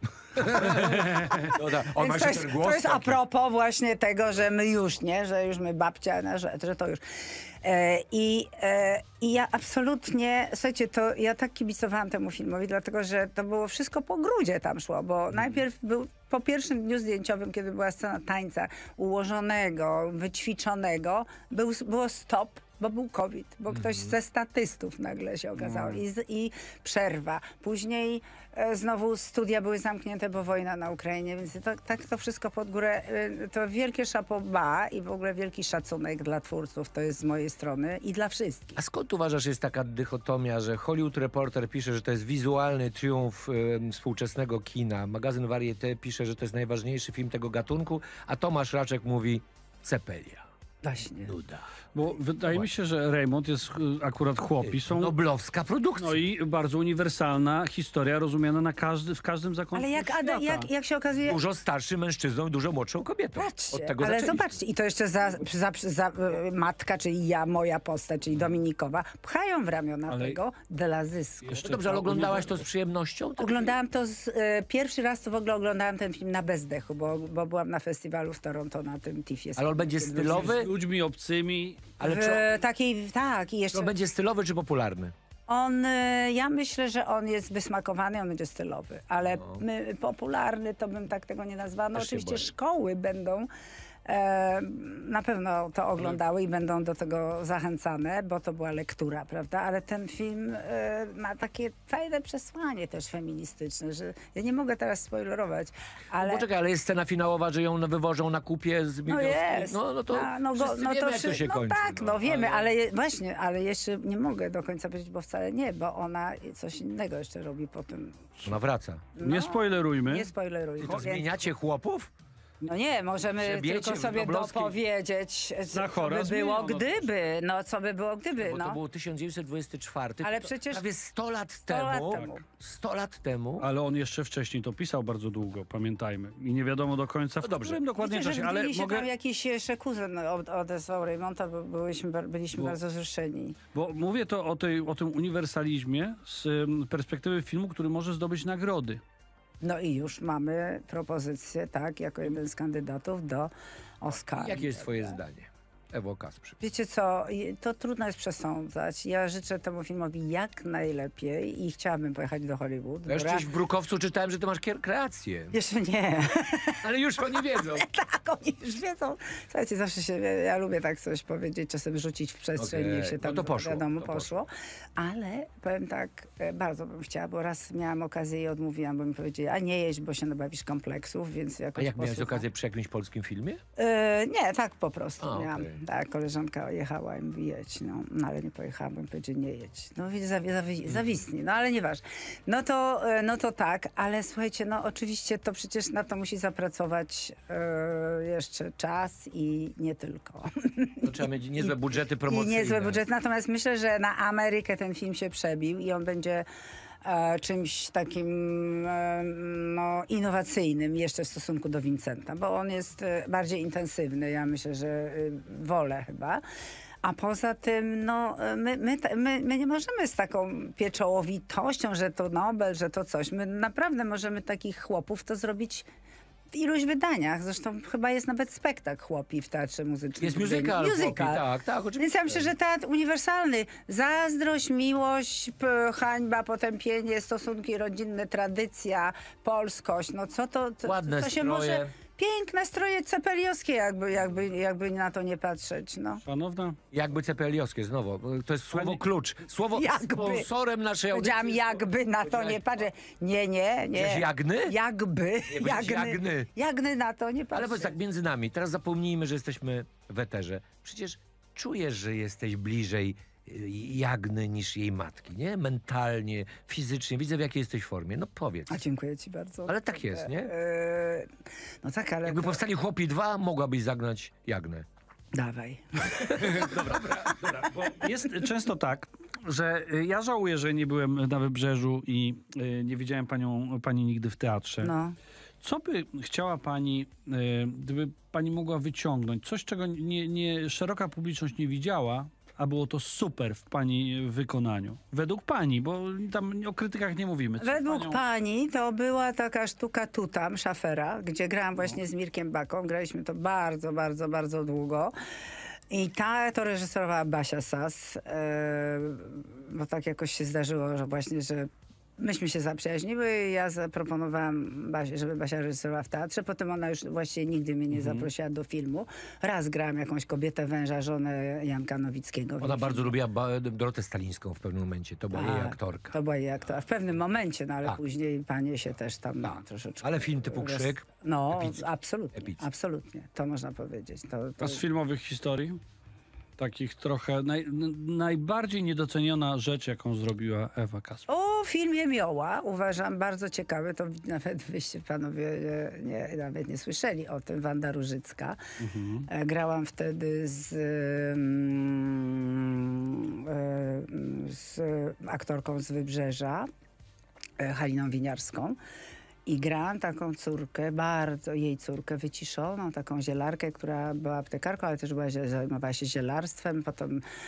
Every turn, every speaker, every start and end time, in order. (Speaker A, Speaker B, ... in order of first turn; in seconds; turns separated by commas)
Speaker A: 0.3-3.2, Speaker B: 0.4-38.8, Speaker A: 23.7-24.1, Speaker A: 38.8-50.5, Speaker B: 50.8-51.3, Speaker A: 51.3-51.7, Speaker C: 51.9-55.1, Speaker A: 54.6-56.2, Speaker C: 56.0-60.7, Speaker B: 59.7-61.4, Speaker A: 61.2-64.5, Speaker B: 63.4-72.4, Speaker C: 70.1-70.4, Speaker C: 71.4-72.6, Speaker A: 71.6-73.8, Speaker B: 73.4-80.7, Speaker A: 79.6-80.7, Speaker C: 80.1-82.0, Speaker A: 82.0-82.4, Speaker B: 82.0-83.9, Speaker A: 83.7-85.1, Speaker B: 85.5-93.5, Speaker A: 89.2-89.6, Speaker A: 91.9-92.5, Speaker B: 94.0-106.4, Speaker A: 106.2-112.5, Speaker B: 109.1-118.3, Speaker C: 112.2-112.6, Speaker A: 118.4-119.1, Speaker B: 119.2-121.4, Speaker C: 119.2-120.3, Speaker A: 120.8-122.1, Speaker B: 122.6-128.8, Speaker A: 123.4-124.7, Speaker C: 125.7-127.1, Speaker A: 128.4-133.7, Speaker B: 130.2-130.8, Speaker B: 131.7-132.4, Speaker C: 133.6-139.1, Speaker A: 137.4-137.8, Speaker B: 138.0-143.6, Speaker C: 143.7-149.0, Speaker B: 149.6-155.2, Speaker A: 154.4-156.6, Speaker B: 156.6-163.5, Speaker A: 163.1-165.6, Speaker B: 165.5-166.8, Speaker A: 166.8-167.9, Speaker B: 167.6-182.4, Speaker A: 172.6-174.3, Speaker A: 181.8-183.6, Speaker B: 183.8-206.5, Speaker A: 185.2-185.8, Speaker A: 201.0-203.0, Speaker B: 207.0-216.4, Speaker B: 217.0-225.9, Speaker B: 226.5-246.2, Speaker A: 230.2-232.5, Speaker A: 240.8-241.9, Speaker C: 246.2-246.8, Speaker A: 246.9-252.6, Speaker B: 249.7-250.5, Speaker B: 251.1-257.9, Speaker A: 253.9-254.7, Speaker A: 255.5-256.5, Speaker A: 257.5-268.8, Speaker B: 268.7-271.3, Speaker A: 269.7-270.5, Speaker B: 271.8-272.6, Speaker A: 272.2-274.9, Speaker B: 275.3-276.8, Speaker A: 276.1-277.8, Speaker C: 276.4-276.7, Speaker C: 277.5-284.9, Speaker B: 284.8-285.1, Speaker C: 285.6-298.2, Speaker B: 297.6-305.1, Speaker B: 305.9-323.1, Speaker C: 317.9-318.3, Speaker A: 322.6-326.1, Speaker B: 325.3-334.8, Speaker A: 329.4-331.8, Speaker A: 332.3-332.6, Speaker C: 334.6-335.8, Speaker C: 336.6-341.2, Speaker B: 341.3-348.6, Speaker C: 348.8-349.3, Speaker B: 349.3-356.7, Speaker B: 357.6-358.8, Speaker B: 359.4-367.2